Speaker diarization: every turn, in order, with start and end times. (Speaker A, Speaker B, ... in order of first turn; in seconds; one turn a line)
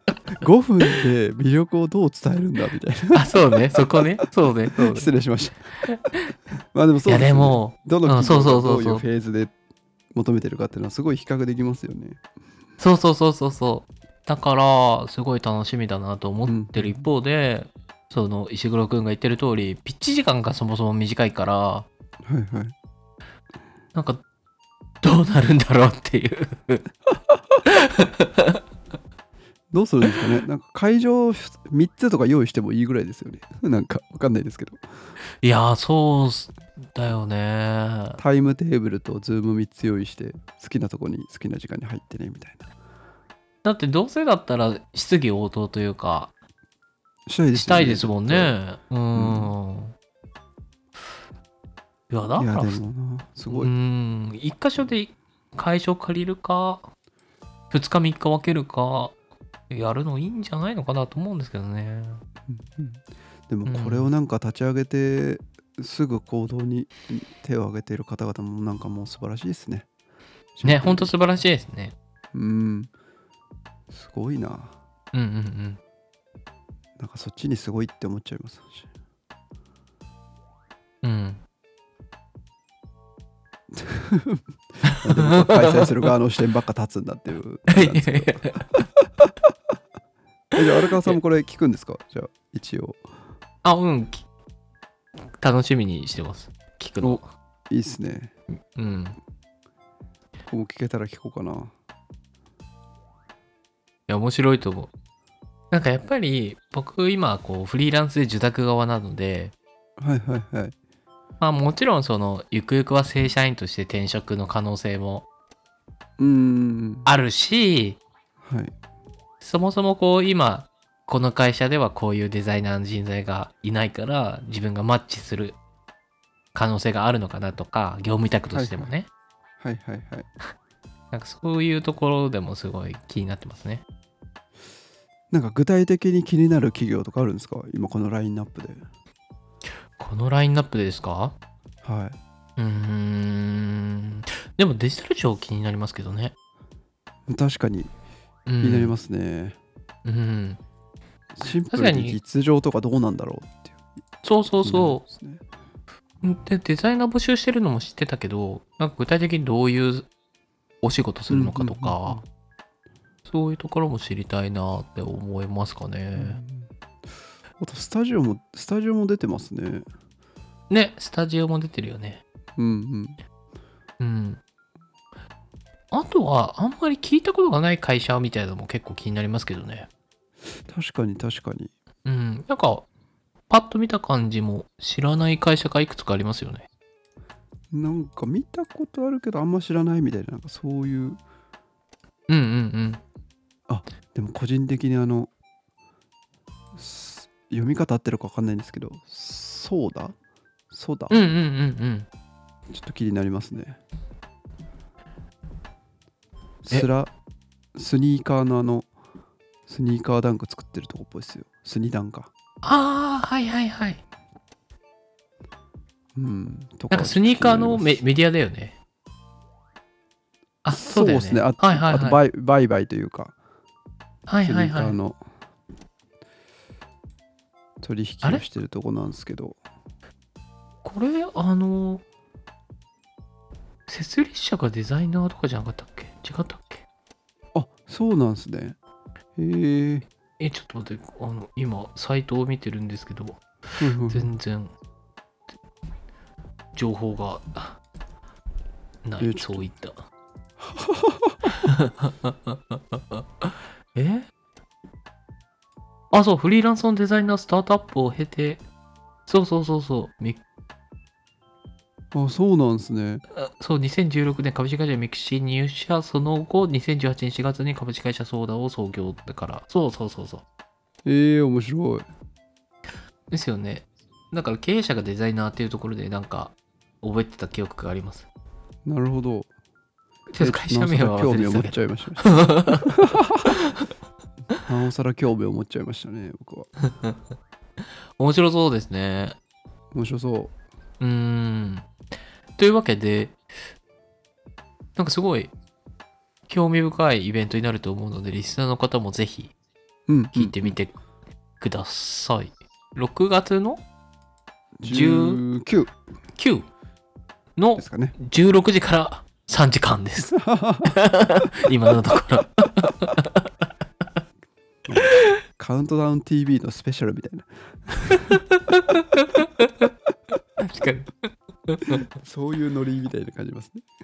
Speaker A: 0.4-4.1
Speaker B: 3.1-5.1
Speaker A: 4.7-5.7
Speaker B: 5.9-6.3
Speaker A: 6.7-9.5
Speaker B: 7.1-9.1
Speaker A: 10.1-12.2
Speaker B: 12.8-21.9
Speaker A: 16.5-17.1
Speaker A: 22.2-22.7
Speaker B: 23.9-24.2
Speaker B: 25.0-26.8
Speaker B: 27.7-28.6
Speaker A: 29.7-34.8
Speaker B: 35.4-38.2
Speaker A: 38.2-42.6
Speaker B: 43.6-46.3
Speaker A: 47.3-48.6
Speaker B: 47.5-50.0
Speaker A: 49.1-49.5
Speaker B: 52.1-52.8
Speaker A: 52.4-53.7
Speaker B: 53.5-56.9
Speaker B: 57.7-59.1
Speaker B: 59.7-62.2
Speaker A: 62.5-69.9
Speaker B: 63.7-64.1
Speaker A: 70.6-71.1
Speaker B: 70.6-72.0
Speaker A: 72.3-72.9
Speaker A: 73.9-74.8
Speaker B: 75.1-75.8
Speaker A: 77.0-78.9
Speaker B: 81.0-81.4
Speaker A: 83.7-88.8
Speaker B: 85.0-85.9
Speaker B: 87.7-88.9
Speaker A: 90.6-93.0
Speaker B: 93.6-94.3
Speaker B: 95.4-97.2
Speaker A: 97.0-98.3
Speaker B: 98.7-99.2
Speaker A: 100.5-101.7
Speaker B: 104.1-104.9
Speaker B: 105.7-109.5
Speaker A: 110.0-110.8
Speaker B: 111.4-115.3
Speaker A: 116.2-117.1
Speaker B: 117.0-118.0
Speaker A: 118.4-118.7
Speaker B: 119.4-125.6
Speaker B: 126.5-129.1
Speaker A: 128.5-128.9
Speaker A: 129.6-130.3
Speaker B: 131.1-133.8
Speaker A: 135.3-138.8
Speaker B: 140.0-141.3
Speaker A: 141.8-142.2
Speaker B: 142.6-146.3
Speaker A: 147.3-147.9
Speaker B: 148.5-148.9
Speaker A: 148.6-149.6
Speaker B: 150.1-150.6
Speaker A: 151.3-153.8
Speaker B: 151.4-152.2
Speaker B: 154.2-155.0
Speaker A: 154.6-155.4
Speaker B: 156.2-160.1
Speaker B: 160.8-162.2
Speaker A: 161.3-162.2
Speaker B: 163.3-166.4
Speaker A: 166.2-166.7
Speaker A: 167.6-169.9
Speaker B: 170.7-172.2
Speaker A: 172.6-173.2
Speaker B: 174.0-174.4
Speaker B: 175.9-179.9
Speaker A: 180.7-181.7
Speaker B: 182.1-182.9
Speaker B: 183.5-186.7
Speaker A: 187.7-191.2
Speaker B: 192.3-193.0
Speaker A: 193.7-195.3
Speaker A: 196.7-200.2
Speaker A: 200.7-201.2
Speaker B: 201.1-202.1
Speaker A: 202.7-203.8
Speaker A: 206.6-207.1
Speaker A: 207.8-208.9
Speaker A: 209.7-212.3
Speaker B: 212.6-214.0
Speaker A: 216.2-218.0
Speaker B: 216.9-218.8
Speaker B: 220.6-222.2
Speaker A: 220.7-223.3
Speaker B: 224.3-225.0
Speaker A: 224.4-225.2
Speaker A: 227.8-229.6
Speaker B: 230.8-232.0
Speaker B: 233.9-236.9
Speaker A: 237.6-238.8
Speaker A: 239.4-240.1
Speaker B: 240.4-243.4
Speaker A: 243.8-244.3
Speaker B: 244.1-244.7
Speaker B: 246.7-247.8
Speaker B: 249.1-250.0
Speaker A: 249.2-249.7
Speaker A: 250.6-251.5
Speaker B: 251.6-254.3
Speaker B: 256.1-258.6
Speaker B: 259.3-260.4
Speaker A: 262.1-263.2
Speaker B: 263.3-270.4
Speaker A: 271.1-272.1
Speaker B: 273.3-278.3
Speaker A: 278.9-279.5
Speaker B: 280.3-283.0
Speaker A: 280.4-283.5
Speaker A: 284.6-286.7
Speaker B: 286.9-287.2
Speaker B: 288.2-289.4
Speaker A: 289.9-290.5
Speaker B: 291.0-291.9
Speaker B: 292.6-293.4
Speaker B: 295.0-295.5
Speaker B: 296.5-299.5
Speaker A: 300.1-300.8
Speaker B: 300.3-300.9
Speaker B: 301.6-303.8
Speaker A: 304.8-305.9
Speaker B: 304.9-305.4
Speaker B: 306.4-306.6
Speaker B: 307.6-313.5
Speaker A: 307.8-308.2
Speaker A: 310.3-311.0
Speaker B: 314.9-315.3
Speaker A: 315.6-318.2
Speaker B: 318.1-319.7
Speaker B: 320.6-322.0
Speaker A: 322.2-323.9